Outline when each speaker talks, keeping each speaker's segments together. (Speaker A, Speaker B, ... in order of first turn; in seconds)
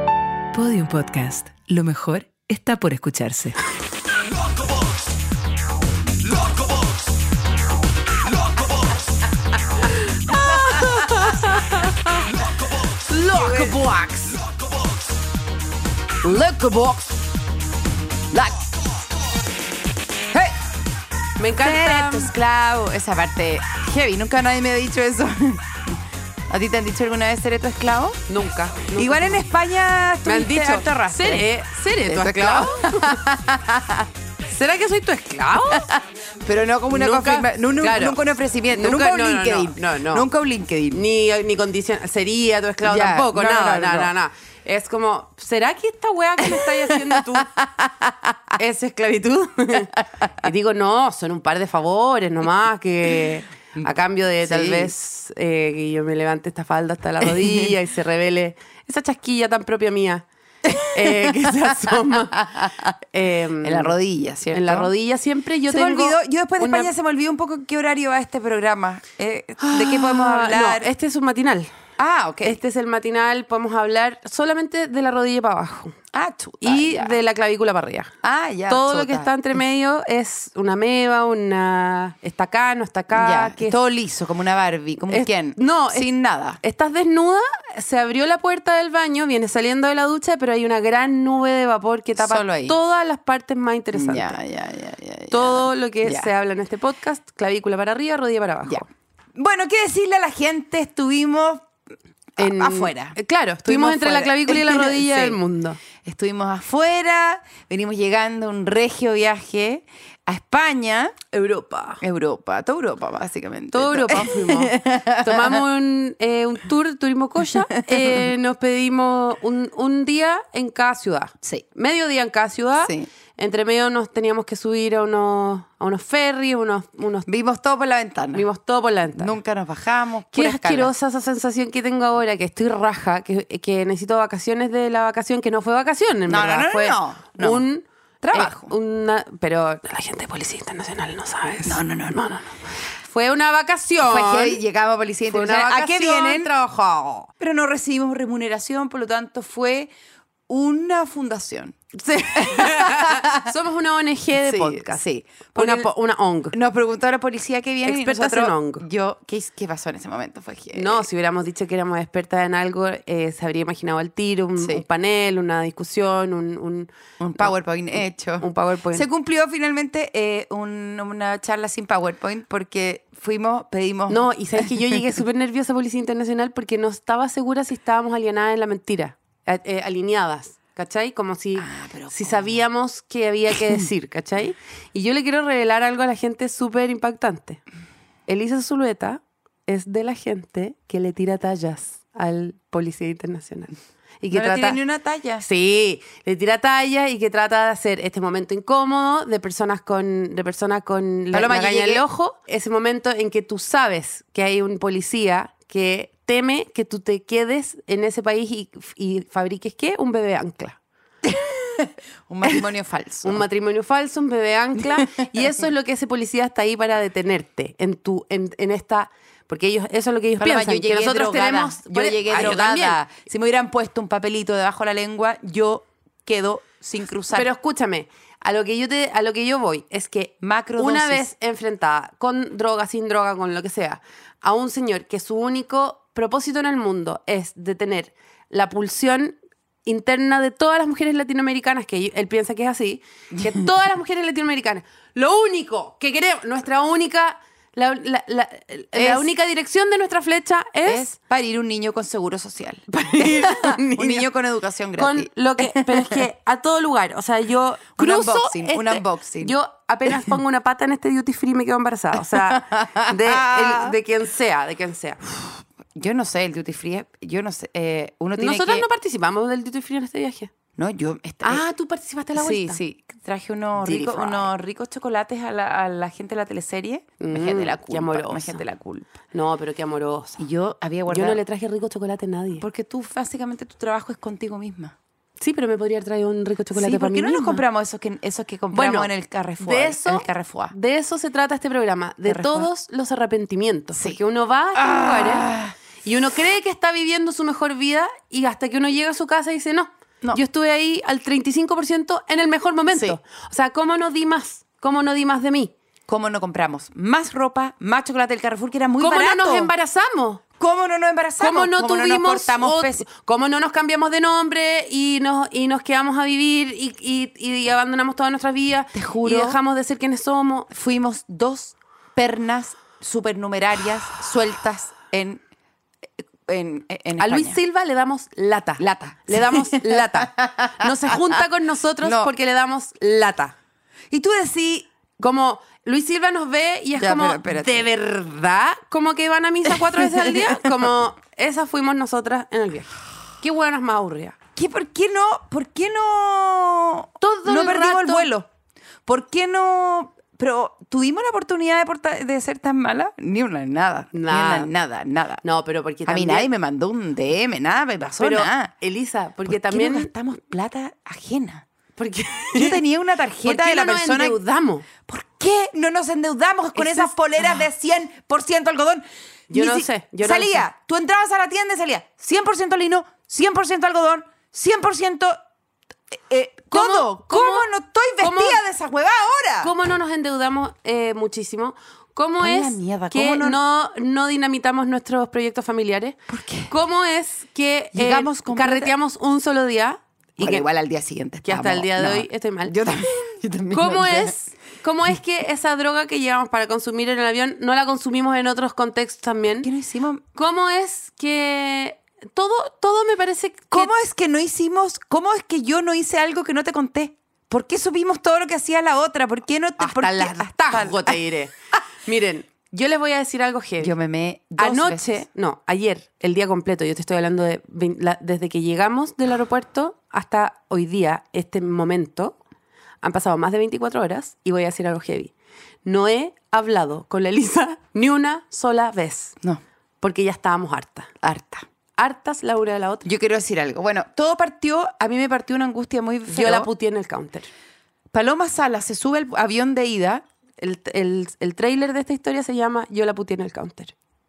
Speaker A: 0.5-3.6
Speaker B: 10.3-12.1, 12.8-14.4, 21.4-22.3, 28.3-29.4, 30.2-33.2, 34.5-35.9, 36.9-38.2, 38.8-40.3, 40.9-47.5, 48.6-60.2, 60.8-62.5, 63.1-64.0, 64.5-66.9, 69.6-71.7, 72.4-76.0, 76.6-78.1, 78.7-83.8, 85.1-86.1, 86.6-94.4, 95.3-98.9, 102.4-105.8, 111.3-112.0, 113.7-127.3, 128.3-129.3, 130.3-144.6, 145.3-147.3, 151.9-156.6, 157.8-158.8, 160.7-167.5, 168.4-169.1, 174.1-187.6, 188.3-194.8, 195.4-210.8, 213.2-223.0, 227.3-251.1, 252.9-254.3, 255.0-265.6, 268.4-270.5, 271.4-272.8, 273.8-274.5, 277.2-278.6, 279.3-280.4, 281.1-282.6, 285.4-287.6, 288.7-295.5, 296.1-305.7, 309.0-310.4, 311.4-320.7, 327.2-333.5, 335.2-344.4, 347.2-348.3, 354.1-354.7, 355.4-356.5, 358.2-360.1, 362.0-362.8, 363.4-364.9, 366.8-367.1, 369.5-370.6, 376.7-377.7, 378.2-378.6, 379.6-390.6, 391.4-392.8, 393.7-399.7, 400.4-403.9, 409.8-413.9, 414.6-422.4, 423.0-425.3, 425.9-429.4, 430.0-431.1, 432.0-433.1, 436.3-437.5, 440.6-443.9
Speaker C: 10.3-11.2, 13.3-13.8, 16.2-17.2, 18.3-18.6, 21.6-26.0, 26.5-28.2, 28.9-31.5, 32.1-34.1, 36.4-41.0, 42.8-44.1, 46.5-48.5, 54.4-54.9, 57.2-57.7, 60.6-62.9, 63.6-64.9, 65.7-70.9, 72.0-72.6, 76.1-77.2, 78.2-79.3, 83.1-86.6, 92.2-92.8, 93.9-96.3, 99.3-101.7, 102.4-105.4, 106.0-111.2, 112.0-115.6, 117.8-118.2, 122.8-123.1, 127.3-128.5, 129.2-130.9, 136.3-137.6, 138.2-138.7, 141.7-142.2, 144.0-146.5, 147.4-149.9, 150.5-153.4, 154.4-155.9, 156.5-161.1, 164.6-164.8, 167.2-175.0, 181.6-182.6, 194.3-195.4, 201.3-202.1, 211.2-213.4, 215.0-215.2, 220.4-227.5, 230.4-231.3, 243.3-243.7, 248.9-249.3, 250.9-256.2, 258.0-259.6, 262.3-263.9, 265.9-268.9, 270.8-271.6, 272.4-279.1, 280.4-281.4, 282.6-284.9, 286.7-290.7, 292.3-292.7, 294.8-295.7, 302.9-303.2, 306.1-309.7, 310.6-313.1, 318.9-319.6, 320.7-325.4, 326.4-327.6, 328.8-331.4, 332.0-332.3, 334.1-334.9, 337.0-337.9, 339.9-340.7, 344.6-348.5, 349.1-355.4, 356.1-358.7, 359.5-361.7, 362.6-364.4, 365.1-375.4, 376.1-379.7, 382.4-383.6, 386.3-386.7, 387.9-388.9, 390.4-394.3, 399.6-400.2, 403.7-411.2, 413.8-415.2, 431.2-431.6, 433.1-436.7, 438.1-440.2